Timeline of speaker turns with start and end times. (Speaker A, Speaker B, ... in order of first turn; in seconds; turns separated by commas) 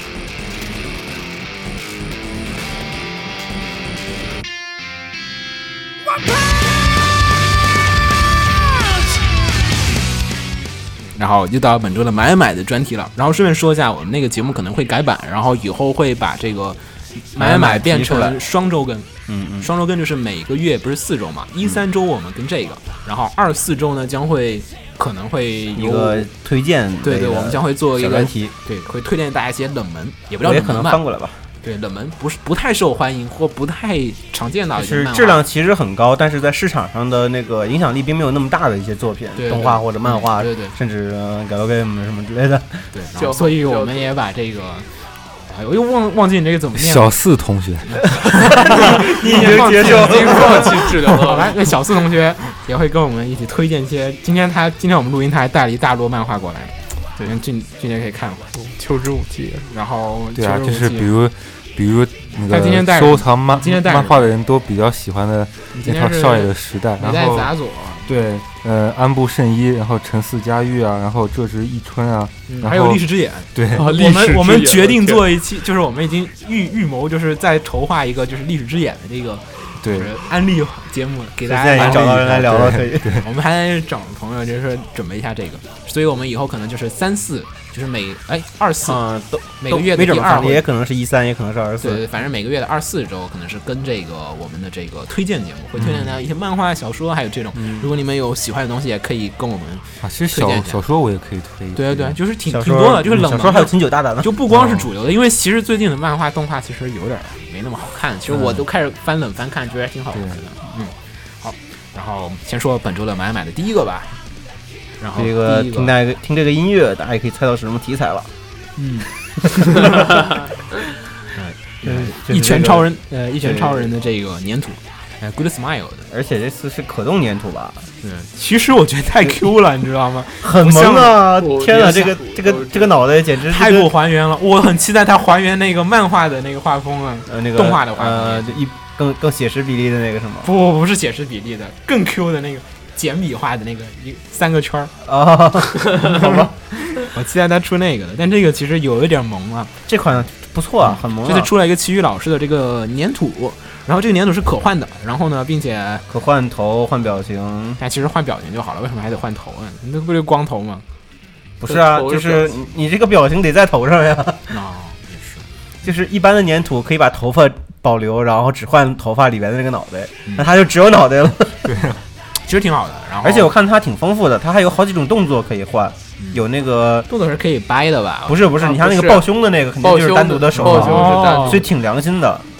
Speaker A: 11.1-26.3, Speaker B: 17.4-18.4, Speaker B: 19.3-19.7, Speaker B: 25.7-28.6, Speaker A: 27.0-31.0, Speaker B: 30.4-31.4, Speaker A: 31.6-35.4, Speaker B: 34.8-42.9, Speaker A: 39.4-40.8, Speaker A: 42.9-47.1, Speaker C: 43.1-44.1, Speaker D: 46.8-48.4, Speaker A: 47.9-58.5, Speaker B: 48.5-51.0, Speaker C: 49.2-51.7, Speaker C: 58.5-59.7, Speaker A: 59.7-61.1, Speaker D: 60.3-67.5, Speaker A: 62.5-64.3, Speaker A: 65.7-68.1, Speaker D: 68.0-73.9, Speaker A: 72.5-82.5, Speaker C: 73.7-75.3, Speaker D: 79.8-80.1, Speaker B: 81.5-83.2, Speaker D: 81.8-83.2, Speaker A: 83.2-89.0, Speaker B: 88.8-92.0, Speaker A: 89.6-90.7, Speaker A: 91.8-100.8, Speaker D: 95.8-96.2, Speaker B: 97.6-97.9, Speaker D: 100.0-102.2, Speaker A: 101.7-114.2, Speaker B: 102.5-104.4, Speaker D: 104.5-104.9, Speaker B: 108.3-108.6, Speaker D: 110.1-110.5, Speaker A: 115.0-115.9, Speaker B: 115.2-118.3, Speaker A: 118.8-120.0, Speaker B: 119.6-120.3, Speaker A: 121.3-126.1, Speaker B: 121.8-123.9, Speaker B: 126.1-127.9, Speaker A: 128.0-131.3, Speaker B: 130.4-133.9, Speaker C: 131.4-132.9, Speaker A: 133.4-138.6, Speaker B: 137.3-140.5, Speaker A: 140.4-144.9, Speaker B: 145.0-146.6, Speaker A: 145.9-146.3, Speaker A: 146.9-149.7, Speaker B: 149.9-151.5, Speaker A: 150.8-156.1, Speaker B: 156.1-157.8, Speaker A: 157.8-160.8, Speaker B: 161.6-164.6, Speaker C: 161.7-162.5, Speaker A: 164.5-165.4, Speaker B: 165.8-171.7, Speaker D: 171.6-172.0, Speaker A: 172.4-173.5, Speaker B: 173.2-177.1, Speaker A: 177.1-178.5, Speaker B: 178.3-182.5, Speaker C: 178.6-179.3, Speaker C: 179.8-181.6, Speaker A: 180.6-181.7